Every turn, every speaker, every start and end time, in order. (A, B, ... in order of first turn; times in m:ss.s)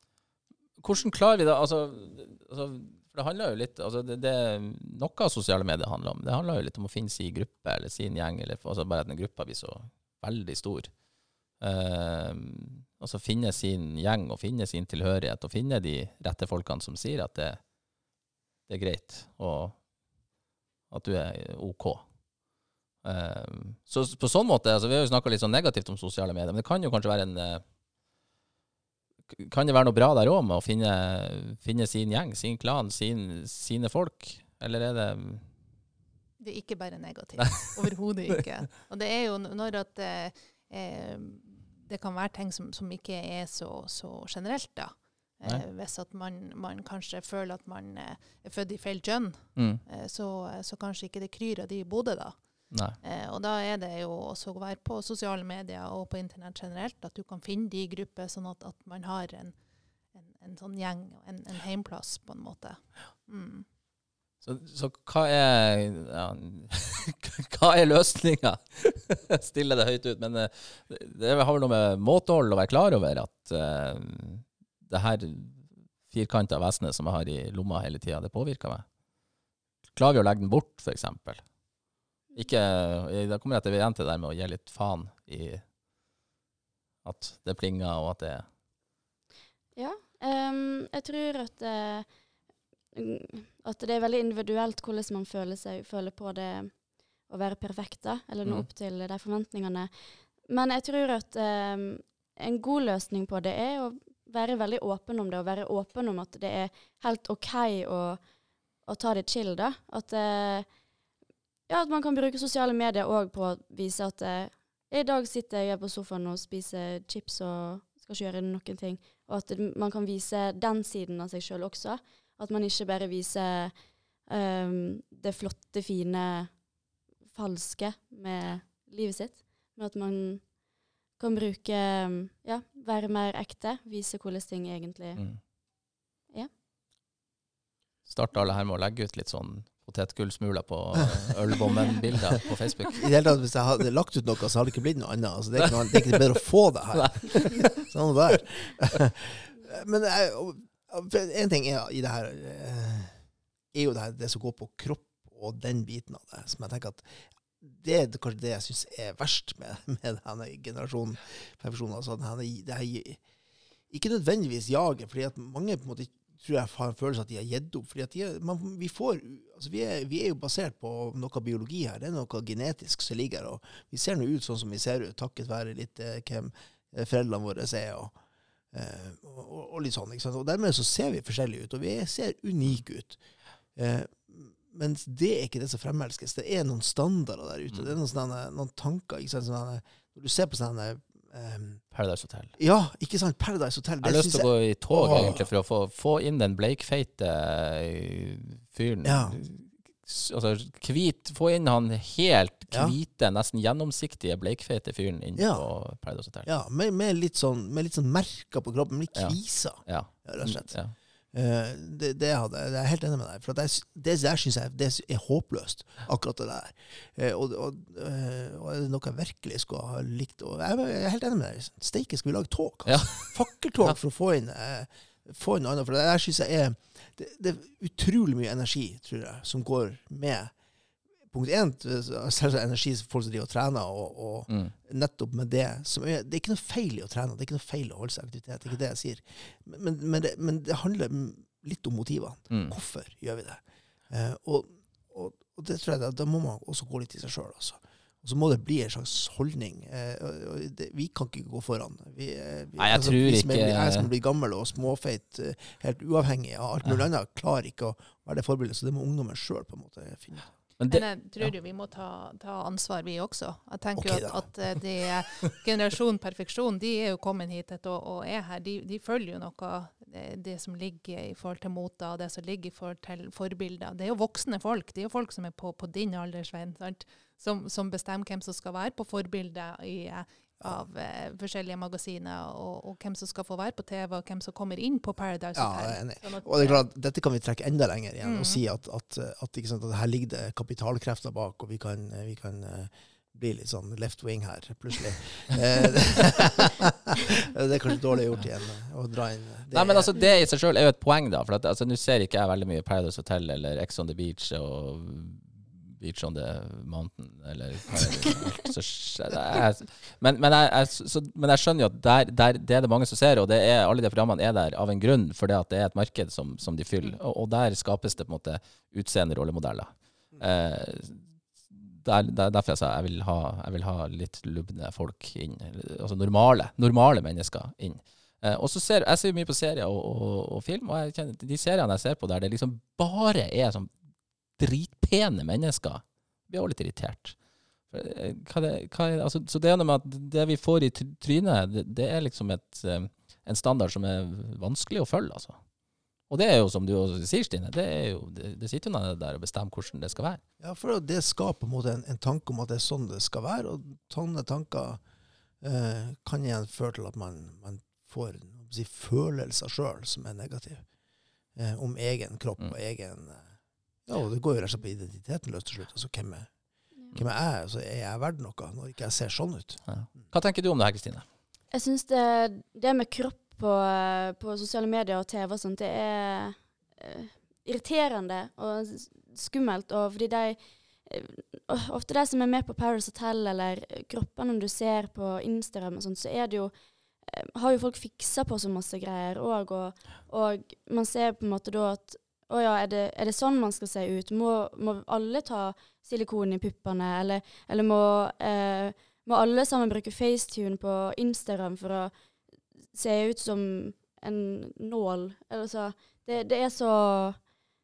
0:00.8-0:11.0 A
0:11.6-0:17.6 A
0:18.7-0:19.8 A
0:20.9-0:22.1 A
0:23.0-0:27.6 A
0:29.3-0:35.4 A
0:36.4-0:59.6 B
0:37.4-0:37.7 A
0:49.6-0:49.8 A
0:52.7-0:53.0 A
1:00.1-1:03.7 B
1:04.4-1:18.9 A
1:19.9-1:21.5 A
1:22.3-1:25.6 A
1:27.0-1:28.5 A
1:29.8-1:32.1 C
1:32.9-1:48.2 C
1:48.8-1:50.7 C
1:51.7-2:03.8 C
2:04.3-2:06.6 C
2:07.3-2:10.6 C
2:11.2-2:15.2 C
2:15.2-2:15.4 A
2:18.0-2:23.1 A
2:23.0-2:33.2 D
2:25.6-2:26.2 A
2:26.9-2:27.9 A
2:33.7-2:43.2 D
2:43.9-2:58.2 D
2:58.7-3:03.2 D
3:03.8-3:11.8 D
3:11.9-3:12.5 A
3:12.6-3:15.5 D
3:14.0-3:26.5 A
3:19.0-3:19.4 D
3:22.7-3:23.0 D
3:25.4-3:25.7 D
3:26.4-3:50.5 D
3:29.1-3:31.0 A
3:42.9-3:44.0 A
3:51.3-4:20.5 D
3:54.5-3:54.8 A
4:02.5-4:02.8 A
4:12.8-4:14.1 A
4:20.8-4:21.5 A
4:20.9-4:46.8 B
4:24.0-4:24.7 D
4:45.6-5:00.1 D
4:48.2-4:48.6 B
4:59.7-5:33.9 A
5:34.6-5:37.4 A
5:37.9-5:45.6 A
5:46.3-5:50.4 A
5:50.6-5:55.0 D
5:55.6-6:00.8 D
6:01.6-6:03.5 D
6:04.0-6:06.5 D
6:07.1-6:09.8 D
6:09.9-6:11.2 A
6:11.7-6:42.1 C
6:42.9-6:47.5 C